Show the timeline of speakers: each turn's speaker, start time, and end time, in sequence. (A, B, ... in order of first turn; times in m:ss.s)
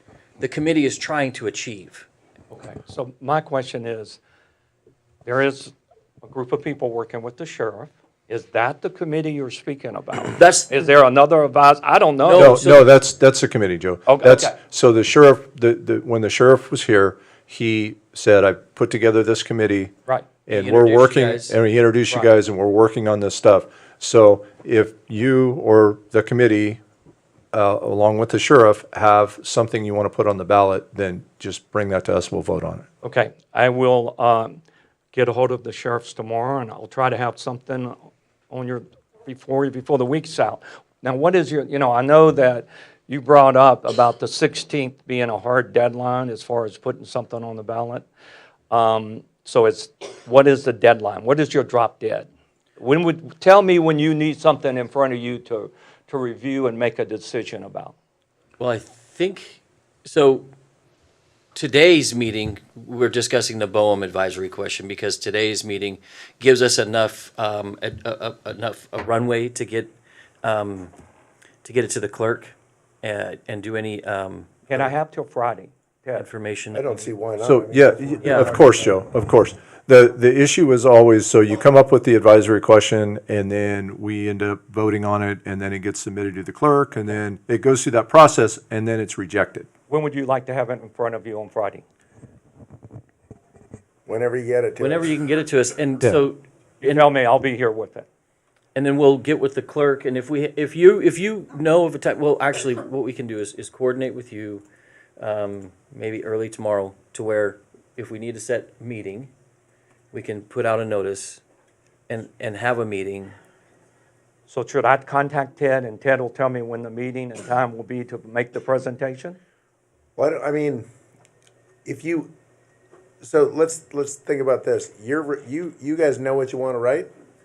0:00.4-0:02.1 A
0:02.5-0:04.2 B
0:05.2-0:12.7 B
0:10.4-0:10.7 A
0:12.2-0:12.8 A
0:12.4-0:19.9 C
0:14.0-0:14.5 B
0:20.4-0:26.8 C
0:20.5-0:21.6 A
0:27.5-0:32.8 C
0:33.0-0:34.6 B
0:35.1-0:38.0 B
0:38.5-0:48.1 B
0:48.7-0:57.9 B
0:58.6-1:00.5 A
1:01.5-1:10.9 A
1:11.6-1:14.6 A
1:14.7-1:16.3 B
1:16.2-1:16.8 A
1:16.7-1:19.0 D
1:17.4-1:29.7 C
1:18.2-1:18.5 A
1:29.9-1:31.8 B
1:34.0-1:35.2 D
1:34.8-1:37.0 A
1:36.8-1:38.0 B
1:38.7-1:44.6 A
1:45.2-1:49.3 A
1:50.1-1:51.4 A
1:52.1-1:53.4 A
1:54.5-1:59.4 B
2:00.2-2:00.9 D
2:01.8-2:02.3 D
2:03.2-2:07.1 D